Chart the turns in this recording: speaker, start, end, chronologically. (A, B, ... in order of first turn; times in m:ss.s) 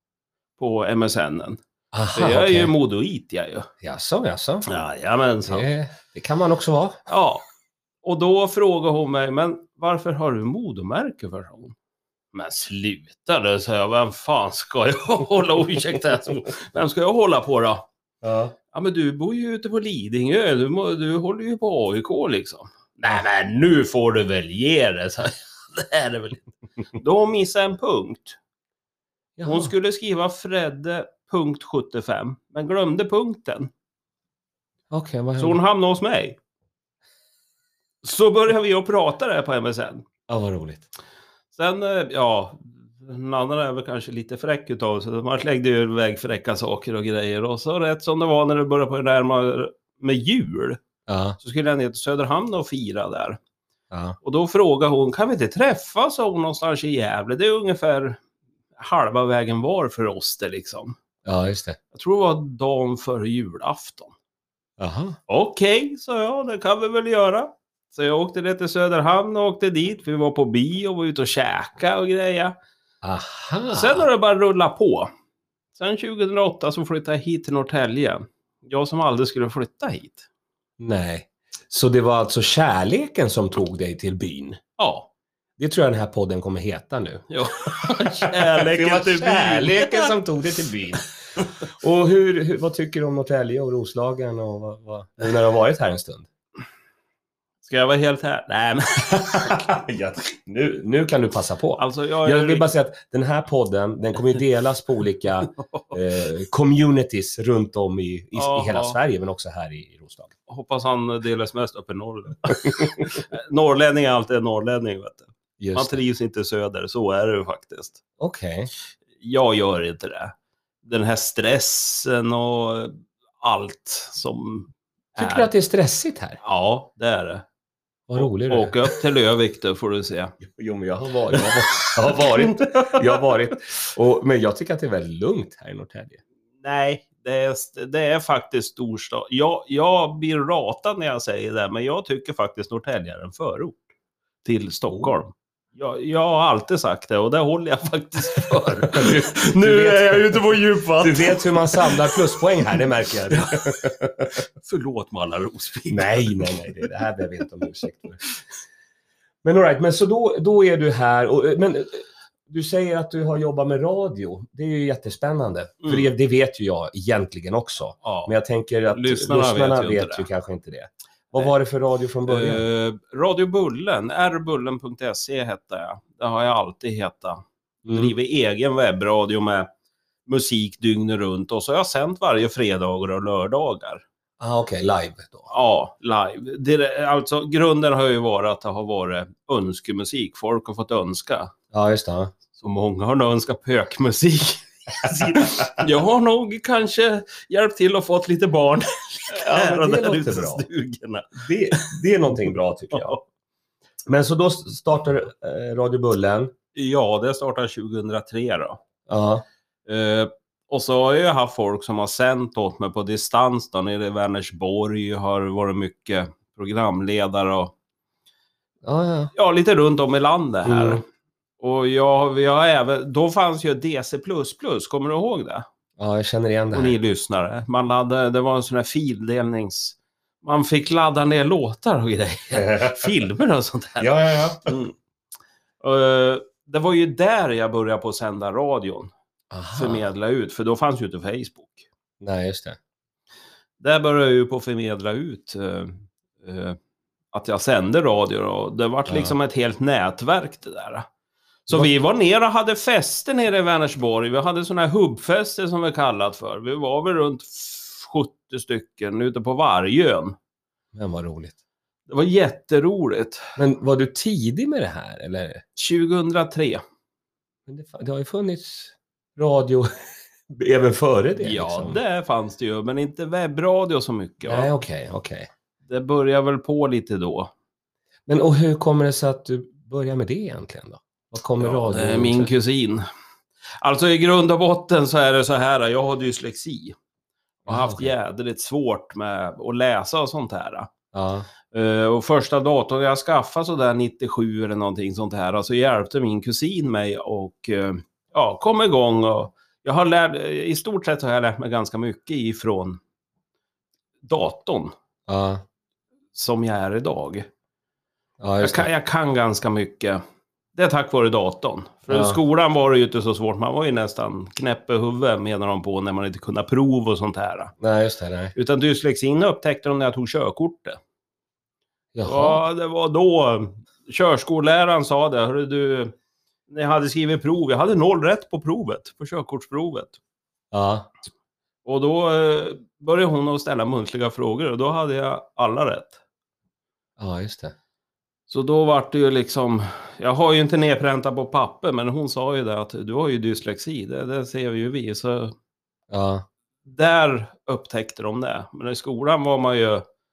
0:00.6-0:01.6 A
0:01.9-0:02.7 B
0:02.1-0:03.7 A
0:03.8-0:04.7 B
0:04.7-0:05.7 A
0:05.5-0:07.0 B
0:07.1-0:07.4 A
0:08.0-0:11.8 A
0:12.3-0:17.9 A
0:18.2-0:18.6 B
0:18.7-0:28.4 A
0:29.4-0:29.7 B
0:29.4-0:33.7 A
0:34.9-0:35.6 B
0:35.4-0:36.4 A
0:38.0-0:40.0 A
0:40.3-0:40.9 B
0:41.5-0:50.8 A
0:51.1-0:51.4 B
0:51.4-0:53.4 A
0:53.9-0:54.2 B
0:54.2-0:58.2 A
0:58.8-1:01.0 A
1:01.2-1:01.8 B
1:01.9-1:04.1 A
1:04.8-1:05.2 B
1:05.3-1:12.6 A
1:13.0-1:14.1 B
1:13.7-1:15.1 A
1:15.8-1:20.3 A
1:20.8-1:24.6 B
1:24.8-1:25.1 A
1:25.6-1:31.1 B
1:27.3-1:30.1 A
1:31.6-1:36.3 B
1:37.6-1:39.7 A
1:39.1-1:50.3 B
1:41.8-1:42.7 A
1:45.6-1:46.0 A
1:48.4-1:49.0 A
1:50.5-1:58.0 A
1:55.6-1:56.0 B
1:58.2-1:58.7 B
1:59.2-2:00.3 A
2:00.8-2:05.5 A
2:05.2-2:06.4 B
2:06.4-2:07.5 A
2:08.1-2:08.8 B
2:08.2-2:10.4 A
2:10.4-2:16.2 B
2:11.4-2:13.3 A
2:16.6-2:23.8 A
2:24.4-2:32.3 A
2:28.8-2:34.3 B
2:33.3-2:33.9 A
2:34.4-2:36.9 A
2:35.9-2:38.2 B
2:39.4-2:52.6 B
2:45.8-2:46.1 A
2:48.0-2:48.3 A
2:48.9-2:50.3 A
2:52.3-2:59.7 A
2:57.9-2:58.1 B
3:00.3-3:04.0 A
3:04.4-3:05.5 B
3:05.5-3:11.5 A
3:11.7-3:12.3 B
3:12.6-3:22.0 A
3:15.4-3:15.7 B
3:19.3-3:20.6 B
3:21.4-3:23.2 B
3:22.9-3:23.2 A
3:24.1-3:26.5 B
3:26.8-3:28.8 A
3:29.1-3:29.4 B
3:29.9-3:37.7 A
3:38.8-3:39.3 B
3:39.3-3:41.0 A
3:40.7-3:41.0 B
3:41.6-3:45.7 A
3:46.0-3:47.0 B
3:46.7-3:54.1 A
3:52.5-3:53.1 B
3:54.0-3:54.8 B
3:54.6-3:54.9 A
3:55.8-3:59.1 A
3:59.5-4:00.0 B
3:59.7-4:01.9 A
4:02.2-4:02.8 B
4:03.8-4:06.8 A
4:07.3-4:11.1 A
4:09.1-4:09.3 B
4:11.7-4:20.4 A
4:20.9-4:21.6 B
4:22.1-4:23.4 A
4:23.6-4:25.6 B
4:25.8-4:26.8 A
4:27.7-4:29.9 B
4:30.5-4:32.0 B
4:31.4-4:34.7 A
4:34.5-4:35.5 B
4:35.9-4:37.5 A
4:38.3-4:42.5 B
4:41.6-4:43.1 A
4:43.8-4:47.0 A
4:47.7-4:50.9 A
4:47.7-4:48.1 B
4:51.1-4:51.5 B
4:51.7-5:03.0 A
5:04.2-5:04.9 A
5:05.3-5:05.6 B
5:06.4-5:07.5 A
5:08.4-5:08.9 B
5:08.6-5:10.2 A
5:10.8-5:17.7 A
5:12.1-5:12.4 B
5:17.8-5:18.5 B
5:18.6-5:21.0 A
5:22.2-5:22.6 B
5:22.2-5:26.1 A
5:26.7-5:30.2 A
5:30.7-5:31.1 B
5:31.8-5:36.2 A
5:37.2-5:37.8 B
5:38.5-5:45.6 A
5:46.1-5:46.4 B
5:46.9-5:50.0 A